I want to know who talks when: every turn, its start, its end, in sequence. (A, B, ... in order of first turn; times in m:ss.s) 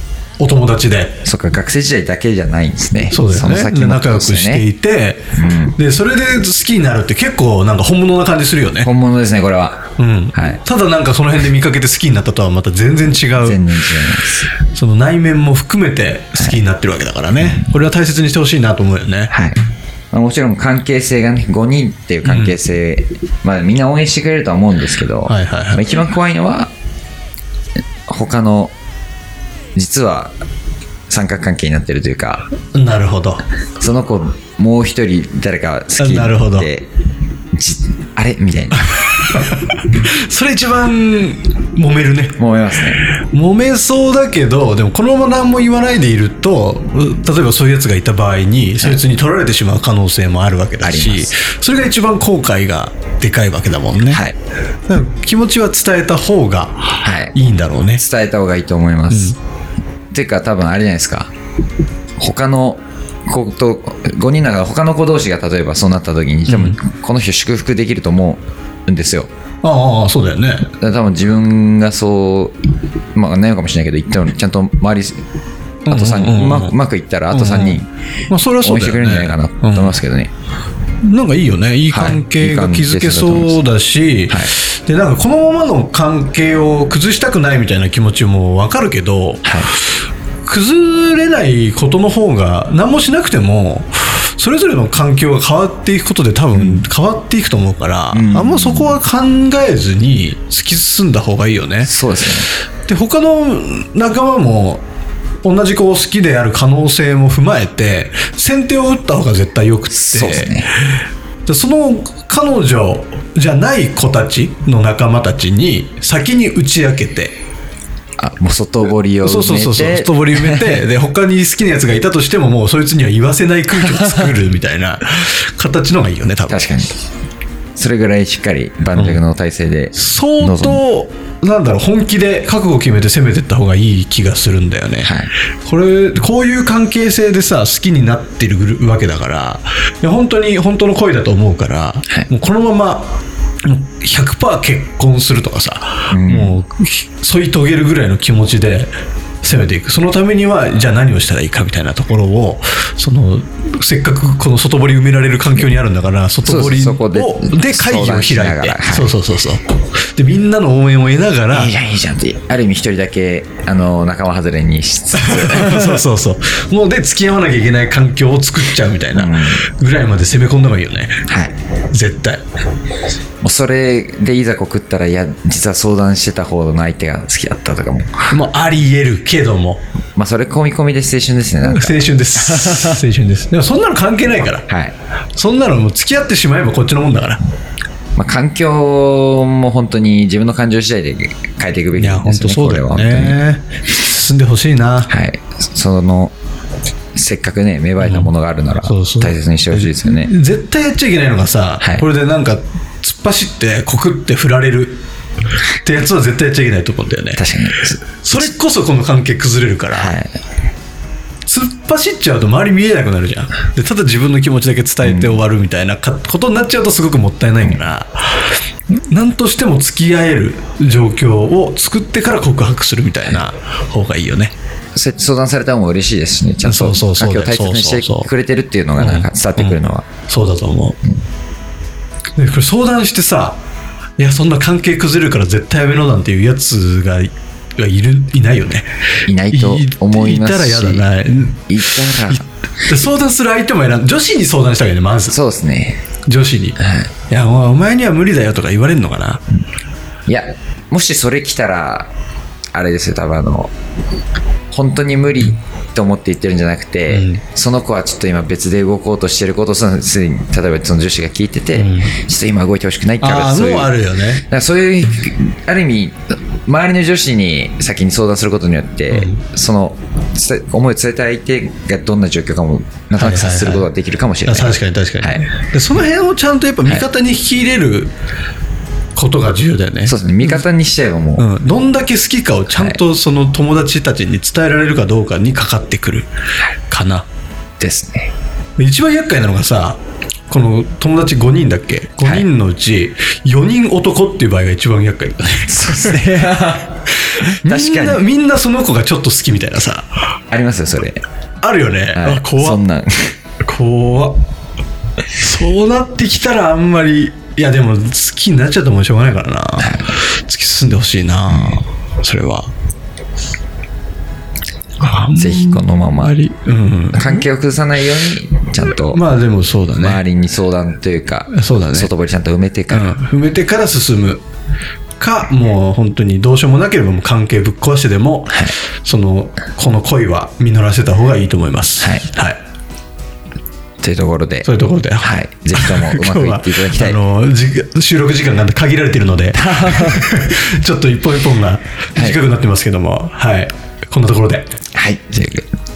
0:00.4-0:01.2 A
0:01.2-0:04.6 B
0:03.1-0:08.9 A
0:05.3-0:05.8 B
0:08.8-0:10.6 B
0:10.0-0:13.6 A
0:13.4-0:14.5 B
0:14.7-0:19.3 A
0:19.3-0:19.6 B
0:20.1-0:26.7 B
0:22.3-0:22.6 A
0:25.3-0:25.9 A
0:28.1-0:28.7 B
0:29.8-0:30.3 B
0:31.1-0:32.4 B
0:32.8-0:33.4 A
0:33.8-0:36.9 B
0:36.0-0:36.7 A
0:37.5-0:39.0 B
0:38.9-0:42.4 A
0:42.4-0:43.0 B
0:43.0-0:54.2 A
0:50.8-0:51.4 B
0:54.1-0:54.4 B
0:54.9-0:58.0 A
0:57.0-0:57.4 B
0:58.0-0:59.4 B
0:59.1-0:59.4 A
1:00.1-1:01.3 B
1:02.2-1:09.3 B
1:06.5-1:06.8 A
1:09.6-1:10.7 A
1:10.8-1:12.6 B
1:13.2-1:15.2 B
1:15.9-1:16.8 A
1:15.9-1:17.9 B
1:17.3-1:20.0 A
1:18.6-1:20.3 B
1:21.0-1:29.6 A
1:21.9-1:23.6 B
1:24.3-1:24.5 B
1:29.4-1:29.7 B
1:30.4-1:41.9 A
1:36.6-1:36.9 B
1:38.1-1:39.0 B
1:41.8-1:42.5 B
1:42.9-1:44.8 A
1:45.4-1:50.8 A
1:50.0-1:50.7 B
1:51.5-1:57.4 A
1:58.2-2:00.8 B
1:59.2-2:06.8 A
2:06.5-2:07.0 B
2:07.8-2:10.8 B
2:09.0-2:09.2 A
2:10.0-2:28.9 A
2:15.0-2:15.3 B
2:26.1-2:26.6 B
2:29.4-2:39.6 A
2:36.4-2:39.2 B
2:40.2-2:41.7 A
2:41.5-2:46.0 B
2:45.2-2:51.2 A
2:49.1-2:49.6 B
2:51.2-2:51.5 B
2:51.9-2:52.4 A
2:53.4-2:58.4 B
2:58.3-2:59.8 A
3:00.2-3:03.0 B
3:01.6-3:04.7 A
3:04.7-3:05.0 B
3:05.4-3:07.4 A
3:08.2-3:13.4 B
3:12.0-3:15.1 A
3:15.1-3:16.3 B
3:17.2-3:20.3 B
3:18.0-3:18.3 A
3:18.8-3:25.0 A
3:21.8-3:22.1 B
3:25.8-3:27.4 A
3:27.4-3:28.5 B
3:28.2-3:30.2 A
3:29.9-3:30.3 B
3:31.5-3:44.5 A
3:35.0-3:35.4 B
3:45.0-3:50.1 B
3:46.6-3:48.3 A
3:49.0-3:51.0 A
3:52.4-3:53.6 A
3:54.2-3:58.9 A
3:59.3-4:01.1 B
3:59.5-4:05.4 A
4:01.7-4:02.4 B
4:05.3-4:06.0 B
4:06.3-4:09.4 A
4:06.8-4:07.1 B
4:10.3-4:12.1 B
4:12.7-4:13.7 B
4:14.7-4:35.5 B
4:17.1-4:17.4 A
4:21.8-4:22.2 A
4:23.2-4:24.4 A
4:29.1-4:29.4 A
4:33.2-4:33.9 A
4:34.5-4:38.1 A
4:39.2-4:40.7 A
4:40.0-4:41.5 B
4:41.4-4:46.3 A
4:42.7-4:43.0 B
4:46.9-4:47.3 A
4:47.8-4:48.3 B
4:48.8-4:56.4 A
4:52.2-4:52.5 B
4:55.7-4:58.2 B
4:57.6-5:00.3 A
5:00.5-5:01.2 B
5:01.6-5:02.8 A
5:02.1-5:03.4 B
5:03.6-5:04.4 A
5:05.4-5:12.7 A
5:09.8-5:10.1 B
5:11.5-5:11.8 B
5:15.0-5:17.4 A
5:15.4-5:16.4 B
5:17.1-5:19.2 B
5:19.1-5:20.2 A
5:20.0-5:23.1 B
5:21.5-5:22.1 A
5:22.9-5:24.4 A
5:25.2-5:32.6 A
5:28.5-5:28.8 B
5:32.0-5:32.3 B
5:34.0-5:34.7 B
5:34.6-5:44.7 A
5:35.2-5:37.2 B
5:39.6-5:40.3 B
5:44.9-5:45.7 B